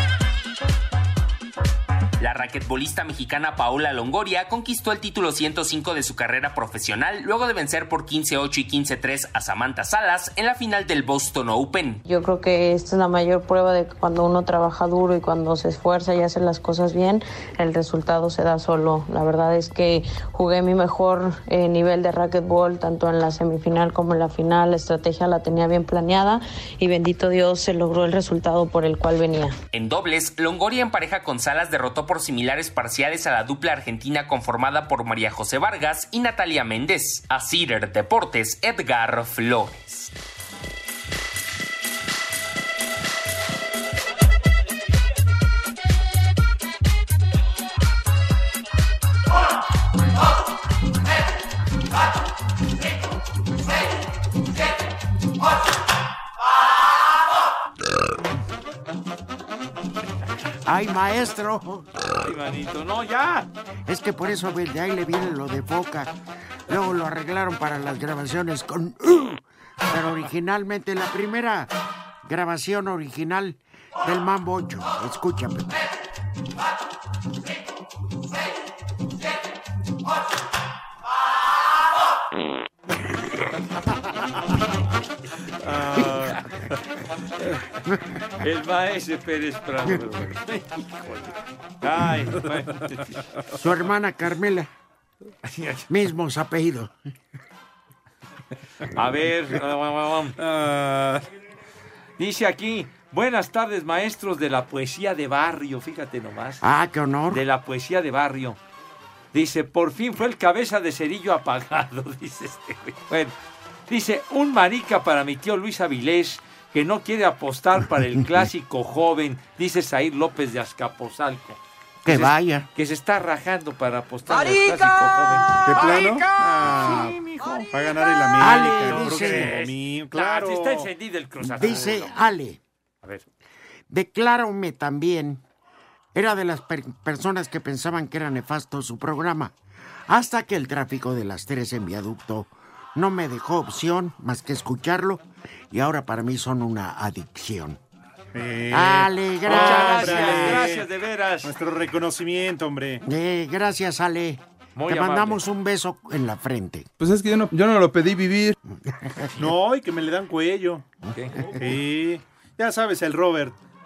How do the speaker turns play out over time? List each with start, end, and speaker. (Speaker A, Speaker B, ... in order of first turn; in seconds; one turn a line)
Speaker A: 2.2-12.0
Speaker B: 12.1-29.6
Speaker A: 29.7-40.1
Speaker C: 60.6-61.9
Speaker D: 62.2-63.5
Speaker C: 63.9-66.1
Speaker C: 66.7-71.7
Speaker C: 72.2-75.7
Speaker E: 85.6-86.5
Speaker C: 86.0-86.3
Speaker C: 87.8-88.2
Speaker D: 88.4-93.2
Speaker C: 93.5-94.7
Speaker D: 95.5-95.9
Speaker C: 95.9-97.0
Speaker D: 98.9-100.4
Speaker E: 100.4-101.2
Speaker D: 102.2-106.6
Speaker C: 106.6-107.4
Speaker D: 107.3-108.6
Speaker D: 109.3-113.3
Speaker D: 113.9-127.7
Speaker C: 118.2-118.5
Speaker C: 122.0-122.7
Speaker E: 125.6-127.2
Speaker E: 127.7-130.9
Speaker C: 128.4-129.6
Speaker D: 128.5-132.3
Speaker C: 131.4-132.6
Speaker C: 133.9-135.4
Speaker C: 136.1-139.5
Speaker C: 140.1-147.8
Speaker E: 148.3-150.9
Speaker C: 148.7-150.7
Speaker D: 149.4-151.5
Speaker E: 151.4-153.0
Speaker C: 153.1-156.9
Speaker D: 154.8-155.4
Speaker C: 158.7-159.2
Speaker E: 159.4-160.9
Speaker C: 161.0-161.5
Speaker D: 161.1-161.5
Speaker E: 161.6-163.6